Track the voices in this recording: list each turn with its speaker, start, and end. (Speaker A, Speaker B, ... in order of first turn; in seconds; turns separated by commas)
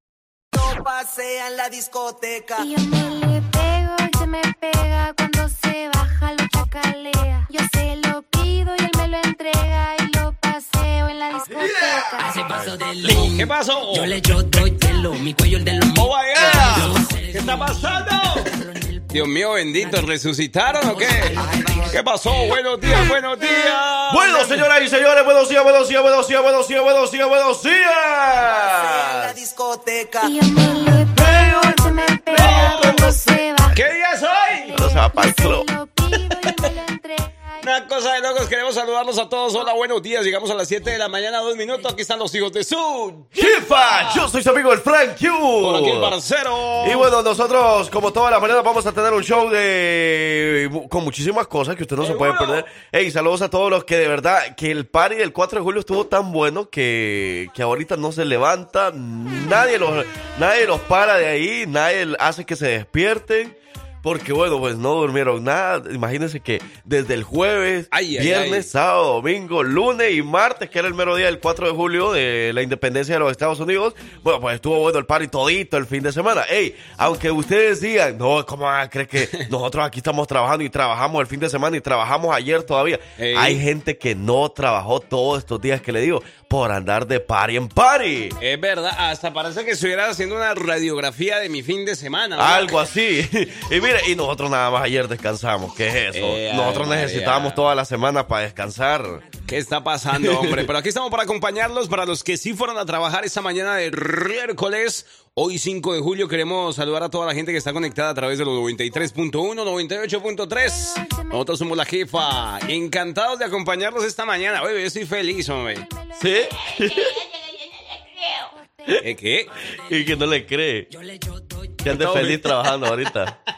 Speaker A: 0.5-2.7, Speaker B: 2.6-12.5, Speaker C: 11.5-12.4, Speaker D: 12.6-13.4, Speaker E: 13.0-14.2, Speaker D: 14.1-15.8, Speaker E: 15.9-18.5, Speaker C: 16.3-17.0, Speaker E: 19.1-24.6, Speaker A: 20.9-22.0, Speaker C: 24.1-29.4, Speaker A: 28.4-30.7, Speaker B: 30.2-33.8, Speaker C: 31.1-33.4, Speaker E: 32.3-33.0, Speaker E: 33.7-34.8, Speaker B: 34.5-37.7, Speaker C: 34.7-35.7, Speaker E: 37.6-44.3, Speaker C: 43.4-46.1, Speaker E: 45.6-47.1, Speaker C: 46.8-88.3, Speaker E: 52.0-52.6, Speaker E: 67.9-68.7, Speaker E: 83.2-83.6, Speaker E: 88.4-92.8, Speaker C: 92.3-99.3, Speaker E: 96.1-97.7, Speaker E: 99.5-115.8, Speaker C: 100.2-100.7, Speaker B: 115.9-116.3, Speaker C: 116.2-117.1, Speaker D: 117.0-118.3, Speaker B: 118.6-118.9, Speaker E: 119.0-119.5, Speaker C: 119.8-120.9, Speaker D: 121.1-121.7, Speaker C: 121.8-123.3, Speaker E: 121.9-122.4